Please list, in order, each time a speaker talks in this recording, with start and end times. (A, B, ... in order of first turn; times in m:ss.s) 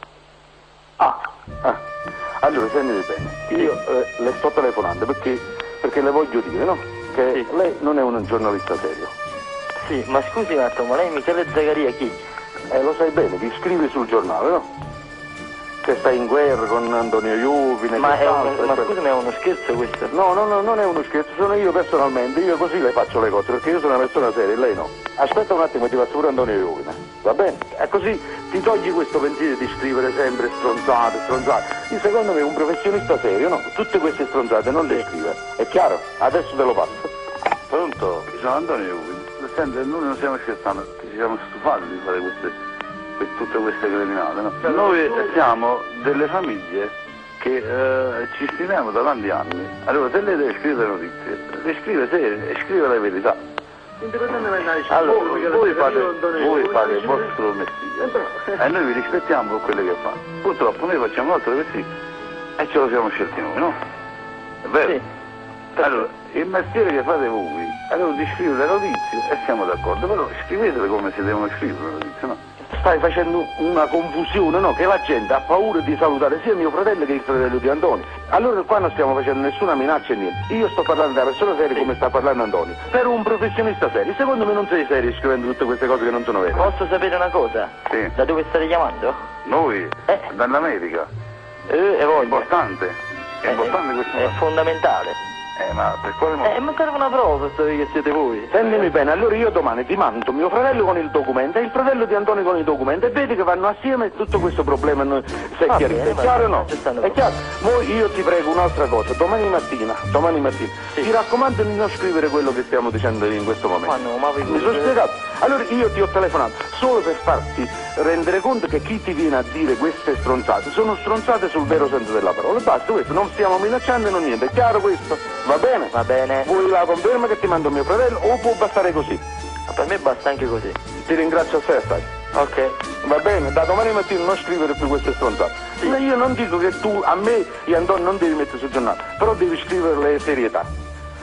0:01.0-0:01.8 A
0:02.4-0:09.1 A
0:09.8-0:12.2 B
0:12.7-0:14.6 A
0:15.8-0:19.0 A
0:18.0-0:20.1 B
0:20.1-0:37.1 A
0:37.7-0:42.5 C
0:43.2-0:53.4 C
0:44.6-0:45.3 A
0:54.0-0:57.3 A
0:54.9-0:55.5 B
0:55.1-1:01.9 C
0:58.0-0:58.6 A
1:02.6-1:03.8 C
1:04.6-1:05.0 C
1:05.8-1:12.4 C
1:12.7-1:26.7 A
1:26.5-1:29.2 B
1:29.4-1:31.1 C
1:31.7-1:32.5 B
1:32.2-1:34.4 C
1:33.4-1:35.2 B
1:35.6-1:36.6 C
1:36.4-1:38.9 B
1:38.5-2:09.2 A
1:45.7-1:47.2 B
1:53.8-1:55.0 B
2:05.9-2:06.5 B
2:09.7-2:10.8 B
2:11.0-2:12.1 A
2:12.3-2:12.8 B
2:13.0-2:20.7 A